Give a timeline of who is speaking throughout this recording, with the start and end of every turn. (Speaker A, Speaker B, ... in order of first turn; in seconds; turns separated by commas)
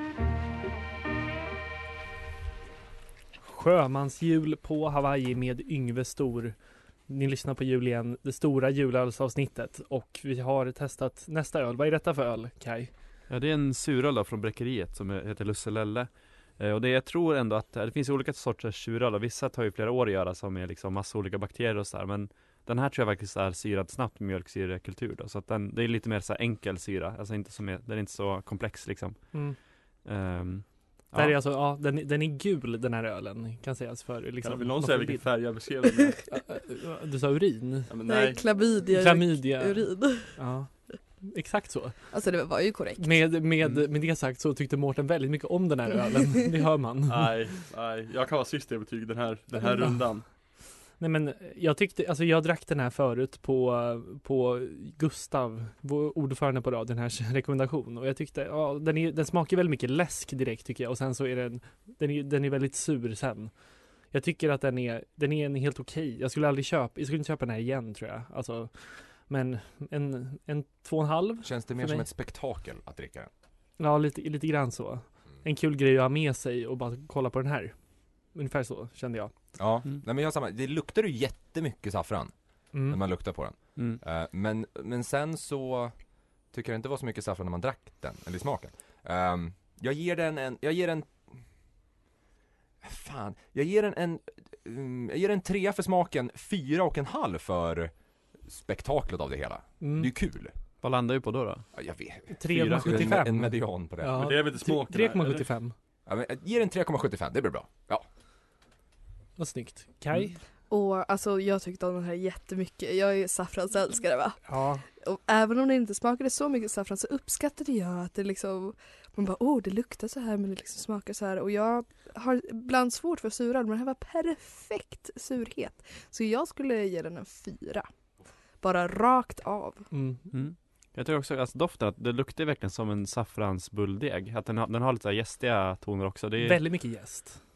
Speaker A: 3.4-12.9, Speaker B: 13.3-31.4, Speaker A: 31.1-35.6, Speaker C: 34.4-36.2, Speaker A: 36.3-37.9, Speaker C: 37.9-38.4, Speaker D: 38.1-40.4, Speaker A: 38.9-42.2, Speaker D: 42.1-43.3, Speaker A: 43.0-47.4, Speaker C: 47.0-50.3, Speaker A: 49.8-50.3, Speaker A: 51.0-63.5, Speaker A: 64.1-72.0, Speaker E: 71.4-73.3, Speaker A: 73.8-77.8, Speaker A: 78.3-79.3, Speaker E: 79.5-91.4, Speaker A: 82.7-83.0, Speaker B: 83.8-84.0, Speaker E: 92.8-100.5, Speaker A: 99.8-100.1, Speaker B: 100.8-101.7, Speaker E: 101.7-104.2, Speaker A: 102.3-105.7, Speaker B: 102.5-103.2, Speaker C: 104.1-105.5, Speaker E: 106.0-108.0, Speaker A: 109.4-110.4, Speaker D: 110.7-127.9, Speaker A: 114.4-114.8, Speaker D: 128.6-129.9, Speaker A: 129.9-130.3, Speaker B: 130.3-136.8, Speaker A: 136.4-137.4